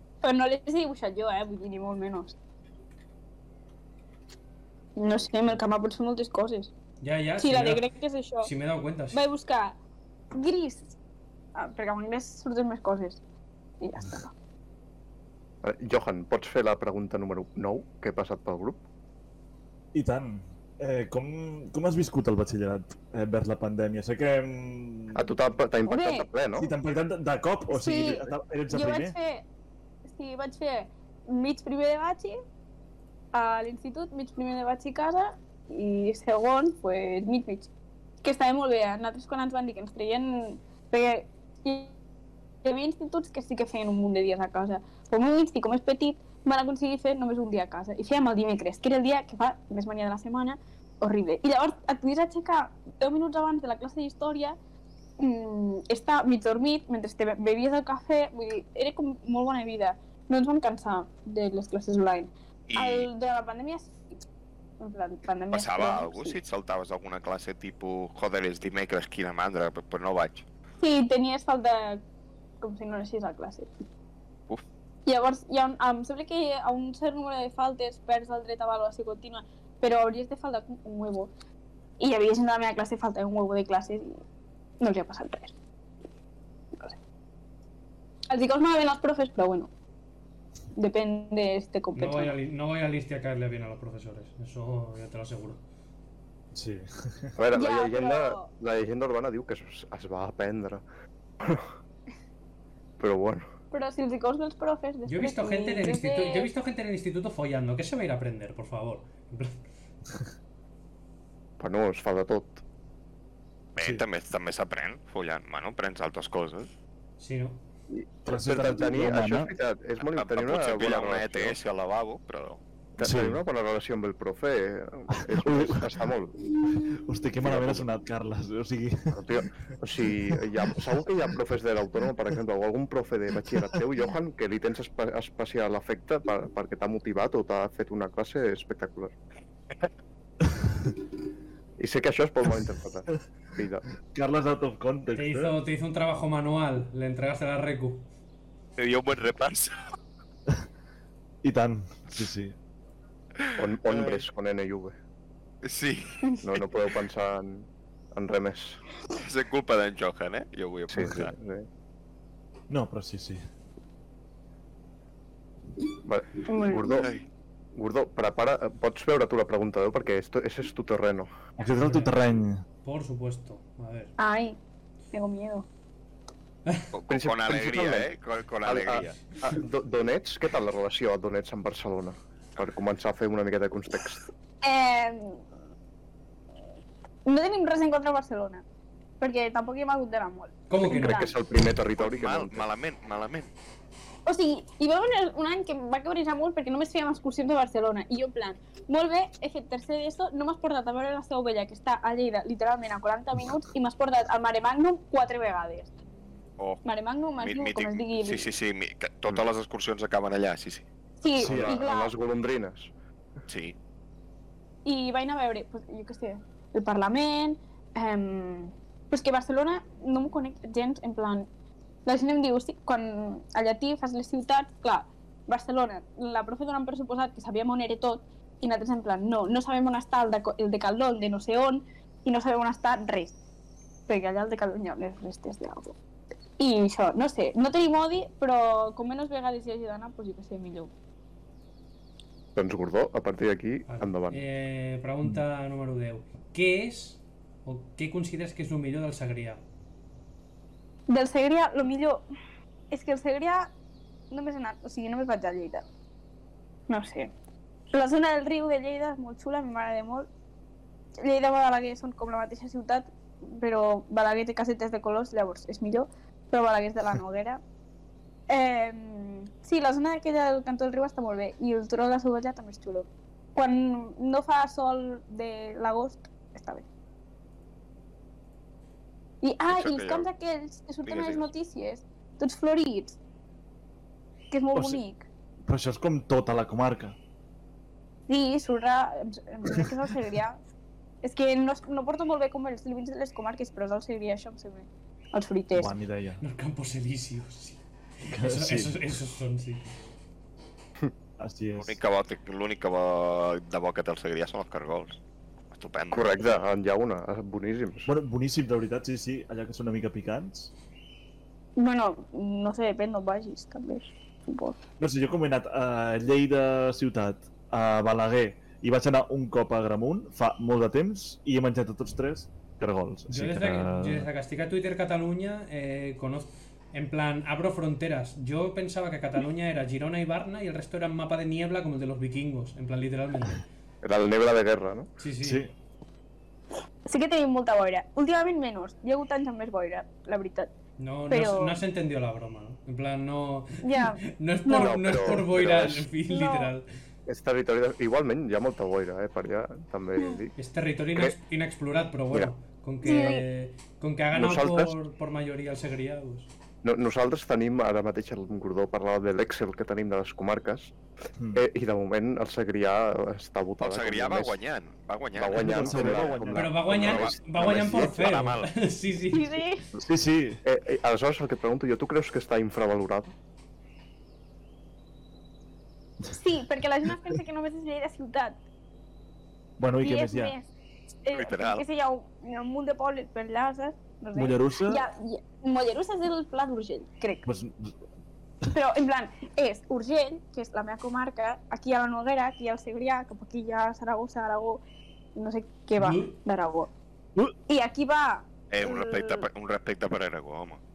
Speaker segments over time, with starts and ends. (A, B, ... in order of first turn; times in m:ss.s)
0:00.2-0:02.4 A
0:05.0-0:06.7 A
0:07.0-0:07.9 B
0:07.4-0:08.5 A
0:08.4-0:09.2 B
0:09.1-0:09.8 A
0:10.3-0:11.0 A
0:11.6-0:13.2 A
0:13.8-0:14.3 A
0:15.6-0:18.8 C
0:19.9-0:25.3 D
0:25.1-0:26.7 C
0:25.9-0:26.3 A
0:26.6-0:29.2 D
0:27.7-0:29.4 A
0:30.1-0:32.4 A
0:33.3-0:37.7 A
0:38.2-0:42.0 A
0:42.6-0:54.6 A
0:55.2-1:04.0 A
1:02.7-1:03.1 E
1:04.8-1:06.4 A
1:05.5-1:10.4 E
1:10.8-1:12.0 A
1:12.6-1:13.7 A
1:15.1-1:21.3 A
1:22.0-1:24.1 A
1:24.8-1:25.5 A
1:28.3-1:29.7 A
1:30.8-1:32.4 A
1:32.0-1:35.6 B
1:36.5-1:37.4 D
1:37.4-1:40.8 C
1:37.5-1:38.5 A
1:41.4-1:41.7 C
1:43.0-1:43.5 C
1:43.7-1:46.5 A
1:45.1-1:49.6 B
1:51.6-1:52.6 C
1:53.8-1:56.7 E
1:53.8-1:54.0 D
1:57.2-1:57.6 B
1:57.9-2:01.6 C
1:58.3-1:59.5 D
2:00.0-2:02.6 E
2:03.0-2:06.4 C
2:03.0-2:03.4 D
2:05.2-2:06.0 D
2:06.6-2:09.5 D
2:07.4-2:07.9 C
2:09.1-2:19.1 C
2:10.0-2:10.4 D
2:13.4-2:13.8 D
2:21.8-2:23.9 C
2:24.1-2:25.5 D
2:25.1-2:28.1 B
2:28.8-2:29.9 E
2:31.4-2:32.6 D
2:33.4-2:34.2 E
2:33.6-2:35.0 C
2:35.6-2:36.2 E
2:36.4-2:38.8 C
2:39.1-2:41.3 E
2:40.9-2:41.7 C
2:42.7-2:43.4 D
2:46.0-2:47.1 C
2:46.5-2:47.1 A
2:47.0-2:47.2 E
2:47.8-2:51.3 C
2:51.6-2:52.6 D
2:51.6-2:52.1 B
2:52.8-2:54.1 B
2:54.2-2:54.6 A
2:55.1-2:55.7 A
2:56.9-2:59.3 E
2:57.1-2:58.1 C
2:58.6-3:04.3 C
3:04.6-3:05.4 A
3:07.3-3:08.6 A
3:09.2-3:11.3 A
3:10.7-3:11.3 B
3:10.8-3:12.6 C
3:12.0-3:13.5 E
3:14.3-3:25.9 A
3:26.8-3:28.5 A
3:27.4-3:30.9 E
3:31.2-3:32.2 A
3:31.4-3:32.9 C
3:31.4-3:31.8 D
3:33.5-3:33.8 E
3:34.8-3:41.5 A
3:42.1-3:53.4 A
3:54.1-3:56.0 A
3:56.6-4:00.9 A
4:02.6-4:04.4 C
4:03.9-4:09.6 B
4:11.1-4:12.2 A
4:12.9-4:13.7 A
4:14.3-4:15.8 A
4:16.9-4:17.3 A
4:17.9-4:20.3 A
4:21.2-4:27.6 A
4:28.5-4:36.9 A
4:39.4-4:43.2 A
4:39.7-4:40.3 E
4:41.0-4:41.5 E
4:44.5-4:45.3 A
4:44.7-4:45.0 D
4:45.7-4:47.2 D
4:48.3-4:50.6 A
4:49.7-4:49.9 D
4:51.2-4:55.9 A
4:55.7-4:56.4 D
4:56.4-4:59.8 B
4:58.3-4:59.0 D
5:01.4-5:02.0 D
5:01.8-5:05.2 E
5:05.7-5:06.4 E
5:06.1-5:08.1 C
5:08.1-5:10.7 D
5:11.8-5:14.8 A
5:15.0-5:24.3 D
5:23.3-5:33.6 B
5:34.0-5:35.1 C
5:35.2-5:35.7 B
5:35.4-5:35.7 D
5:37.0-5:40.7 A
5:41.0-5:46.9 B
5:41.3-5:41.8 A
5:43.8-5:45.4 A
5:44.8-5:46.1 C
5:46.3-5:46.7 A
5:47.3-5:50.5 C
5:50.6-5:56.5 B
5:53.0-5:53.5 A
5:54.3-5:55.0 C
5:56.8-6:01.0 C
6:01.4-6:01.6 D
6:01.6-6:04.6 C
6:03.8-6:06.3 E
6:05.4-6:08.2 C
6:05.5-6:07.2 D
6:06.5-6:09.6 B
6:06.9-6:08.7 E
6:09.3-6:09.9 A
6:10.0-6:10.6 D
6:10.6-6:13.3 C
6:16.3-6:18.6 A
6:17.1-6:17.4 D
6:19.8-6:20.6 D
6:20.0-6:20.7 A
6:21.2-6:27.5 A
6:21.3-6:21.8 E
6:24.4-6:25.1 D
6:27.4-6:28.0 D
6:28.7-6:34.8 A
6:35.4-6:36.9 A
6:36.0-6:36.4 B
6:37.7-6:39.5 A
6:38.7-6:40.8 E